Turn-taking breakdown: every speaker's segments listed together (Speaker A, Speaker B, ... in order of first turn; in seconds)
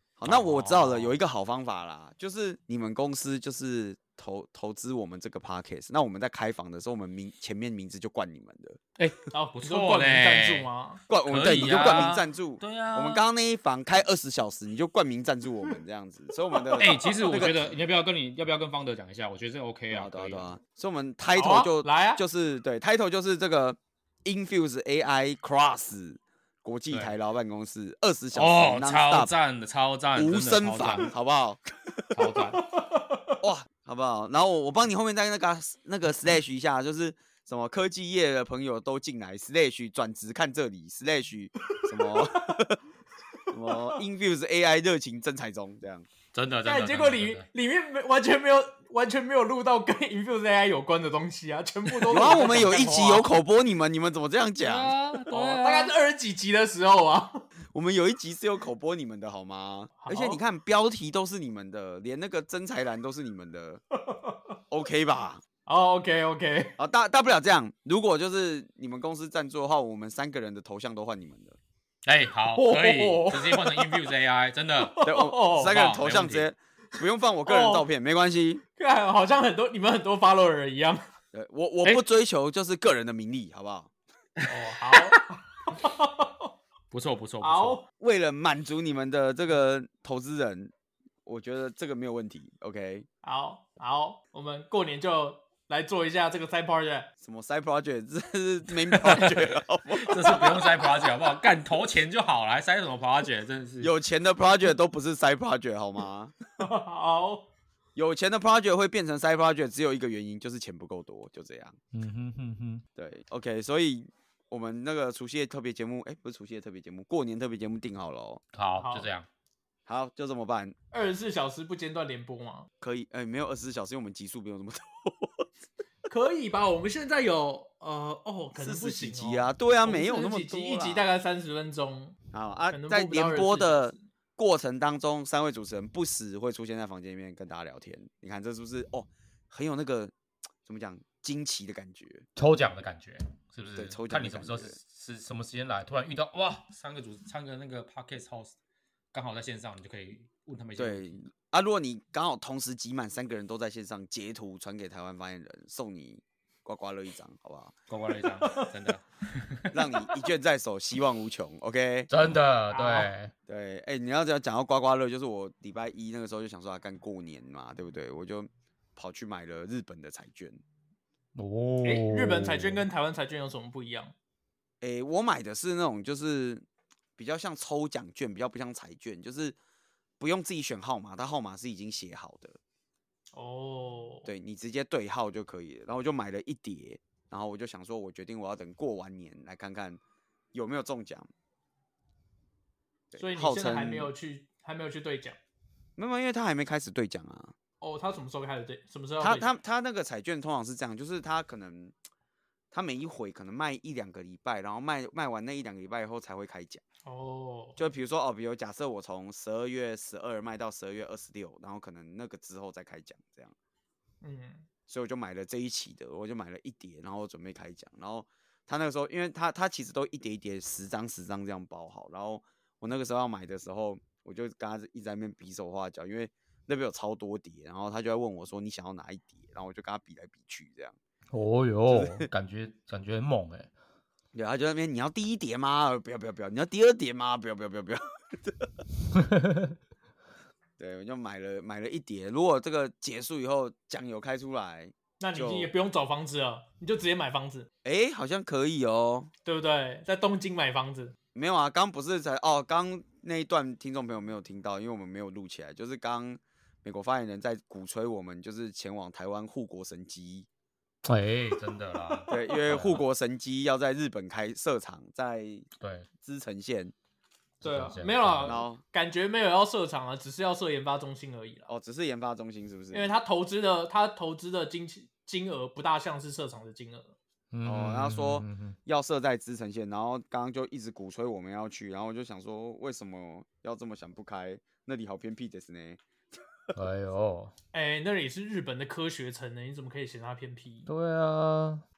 Speaker A: 0.2-8.8, 11.1-17.7, 19.9-29.3, 30.1-32.2, 33.4-42.8, 43.5-46.1, 52.1-55.0, 57.7-63.8, 64.7-65.4, 66.8-71.6, 75.0-78.6, 81.3-83.9, 88.0-90.7, 91.3-93.1, 97.2-100.9, 103.8-106.3, 108.0-111.8, 113.0-118.4, 119.9-120.8, 122.8-125.5, 128.6-131.1, 132.3-140.1, 140.7-142.2, 143.8-144.8, 150.8-157.7, 159.7-162.1, 163.5-170.6, 174.8-176.7, 177.2-179.6, 180.2-182.6, 184.3-190.0, 190.5-191.3, 193.1-194.1, 196.0-197.5, 199.2-201.9, 202.7-206.8, 207.8-213.5, 214.9-231.0, 231.9-232.3, 234.3-238.7, 240.8-245.7, 247.8-249.3, 251.3-260.5, 262.3-265.7, 266.2-266.9, 268.4-268.8, 271.7-273.1, 277.6-286.0
Speaker B: 0.2-1.2, 9.0-10.7, 11.3-13.2, 16.8-20.5, 28.4-31.1, 32.1-32.6, 46.3-47.5, 54.6-55.9, 72.0-76.5, 84.4-85.2, 86.9-87.8, 98.9-103.9, 111.9-112.8, 118.5-119.3, 142.4-148.6, 149.1-151.2, 157.9-159.8, 162.1-163.3, 171.3-172.8, 231.3-233.7, 239.4-239.6, 261.1-263.0, 265.8-266.1, 267.6-268.5, 277.5-278.8, 286.8-287.5, 290.9-291.8
Speaker C: 9.3-11.0, 16.5-17.0, 21.4-22.2, 32.6-33.4, 41.8-42.7, 46.6-53.3, 55.3-57.5, 60.0-60.4, 64.1-64.4, 65.7-66.8, 72.5-74.1, 74.8-75.8, 77.5-77.8, 78.8-81.0, 84.5-86.5, 87.4-87.8, 93.2-97.1, 106.6-107.5, 118.8-119.1, 120.9-122.7, 126.1-132.2, 132.7-134.0, 158.4-158.7, 162.7-163.1, 171.8-174.1, 183.3-184.3, 193.2-195.4, 197.8-199.5, 207.1-207.8, 214.2-214.7, 245.2-247.7, 249.4-251.2, 267.6-271.7, 272.9-277.1, 287.7-290.9